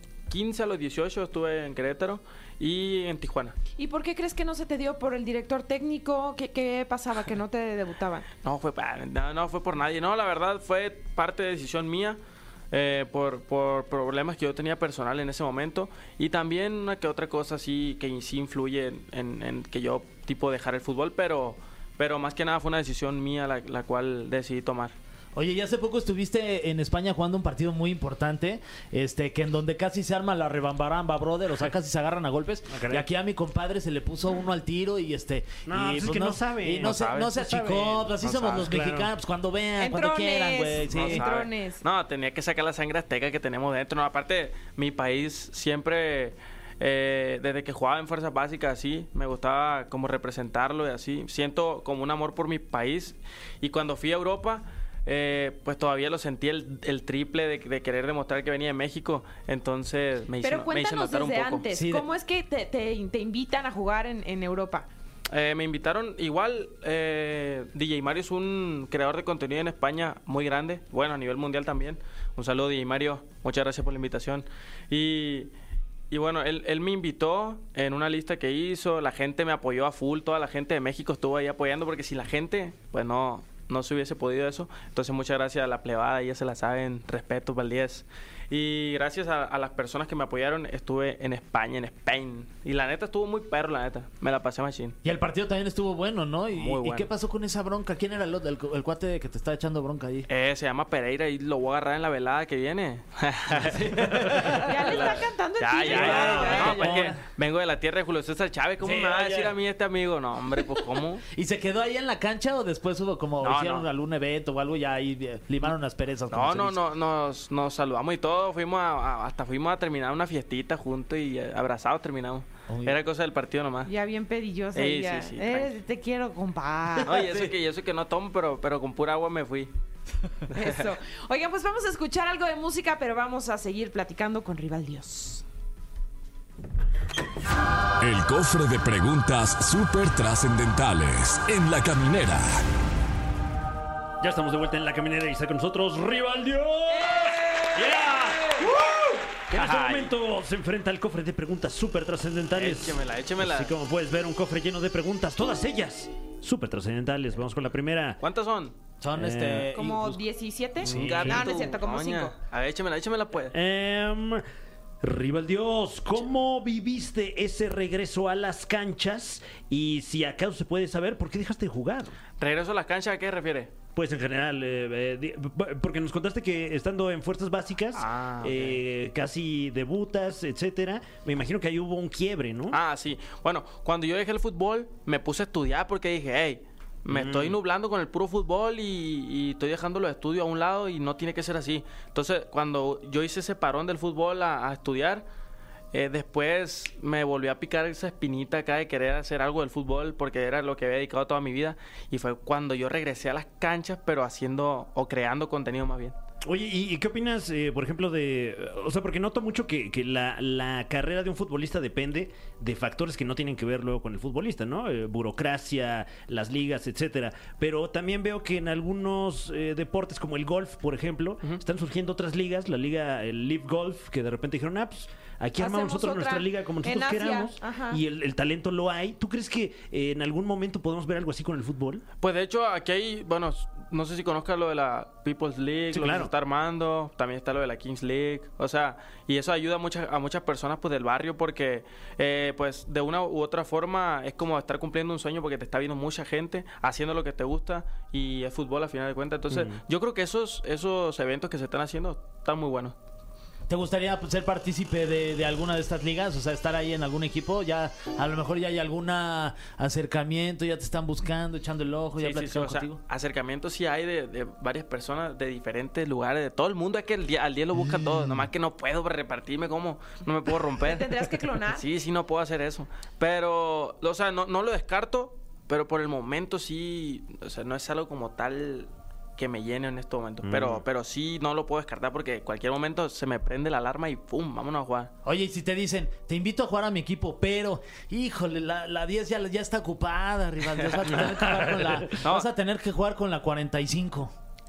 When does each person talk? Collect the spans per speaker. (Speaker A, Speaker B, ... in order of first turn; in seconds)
Speaker A: 0.3-3.5, 8.4-12.2, 12.7-24.9, 36.8-37.4, 38.1-38.7, 40.9-61.6, 65.3-75.5, 76.1-95.0, 96.5-97.1, 100.3-111.2, 113.4-113.9, 116.3-123.9, 124.8-125.7, 127.0-129.7, 130.5-130.8, 147.0-148.7, 149.5-150.1, 152.5-153.8, 158.2-158.8, 160.8-163.6, 172.4-173.7, 177.9-178.8, 182.7-195.2, 195.9-206.2, 232.2-252.9, 262.2-285.1, 292.1-292.5
Speaker B: 3.8-8.3, 39.8-41.8, 60.4-64.9, 104.6-106.9, 123.9-127.1, 130.5-135.4, 159.7-162.3, 225.6-228.0, 270.8-271.9
Speaker C: 25.3-41.3, 61.7-62.1, 95.0-100.3, 103.5-105.1, 105.9-107.2, 108.8-109.6, 111.3-116.8, 122.7-123.0, 127.0-127.5, 159.0-160.2, 253.7-263.0, 267.8-268.5, 285.2-294.3
Speaker D: 32.7-33.1, 35.7-38.1, 38.6-39.1, 105.9-106.9, 144.2-158.2, 159.2-159.7, 160.8-161.5, 163.5-164.4, 165.0-172.2, 173.9-182.8, 187.1-187.6, 206.4-232.0, 235.9-236.3, 249.5-249.8, 280.4-280.8
Speaker E: 138.0-142.6